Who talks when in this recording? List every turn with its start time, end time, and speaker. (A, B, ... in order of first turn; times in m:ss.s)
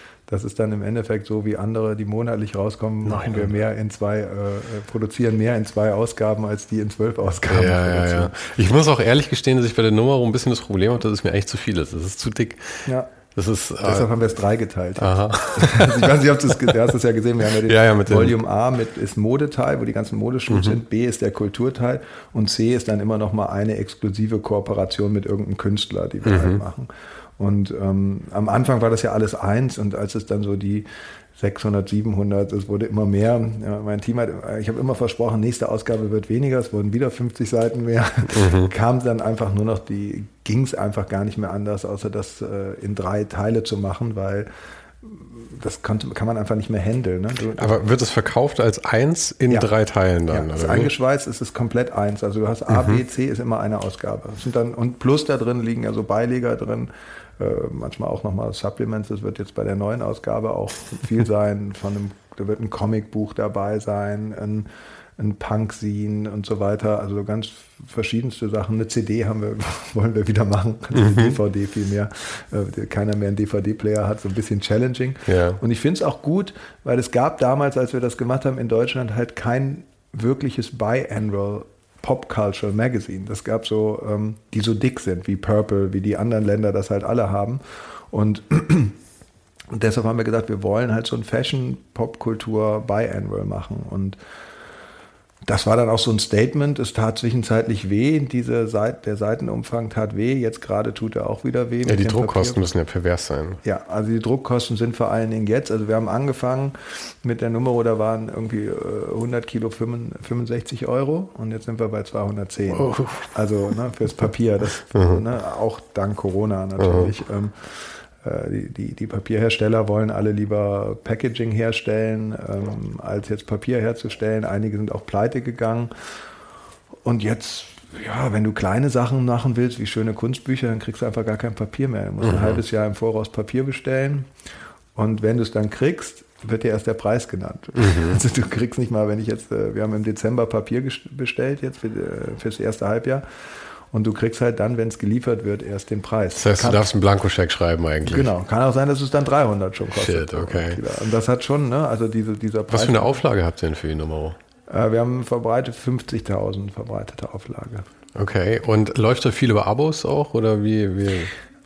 0:00.3-0:08.4 A
0:03.1-0:03.5 B
0:07.5-0:12.8 B
0:12.9-0:13.1 A
0:13.4-0:14.1 B
0:13.8-0:44.5 A
0:15.0-0:16.2 B
0:17.6-0:18.4 B
0:26.2-0:26.6 B
0:38.4-0:38.7 B
0:45.0-0:47.8 A
0:47.6-0:50.9 B
0:50.3-1:04.7 A
0:52.8-0:53.0 B
1:05.2-1:27.6 A
1:11.0-1:11.3 B
1:15.3-1:15.6 B
1:28.1-1:29.0 A
1:29.7-1:34.2 A
1:35.5-1:42.6 A
1:41.9-1:43.6 B
1:43.6-2:05.9 A
1:52.8-1:53.1 B
2:07.0-2:14.3 A
2:15.0-2:23.2 A
2:17.9-2:18.1 B
2:23.9-2:26.9 A
2:26.4-2:28.2 B
2:28.1-2:33.2 A
2:30.0-2:30.8 B
2:32.8-2:34.3 B
2:34.7-2:37.9 A
2:38.2-2:41.3 B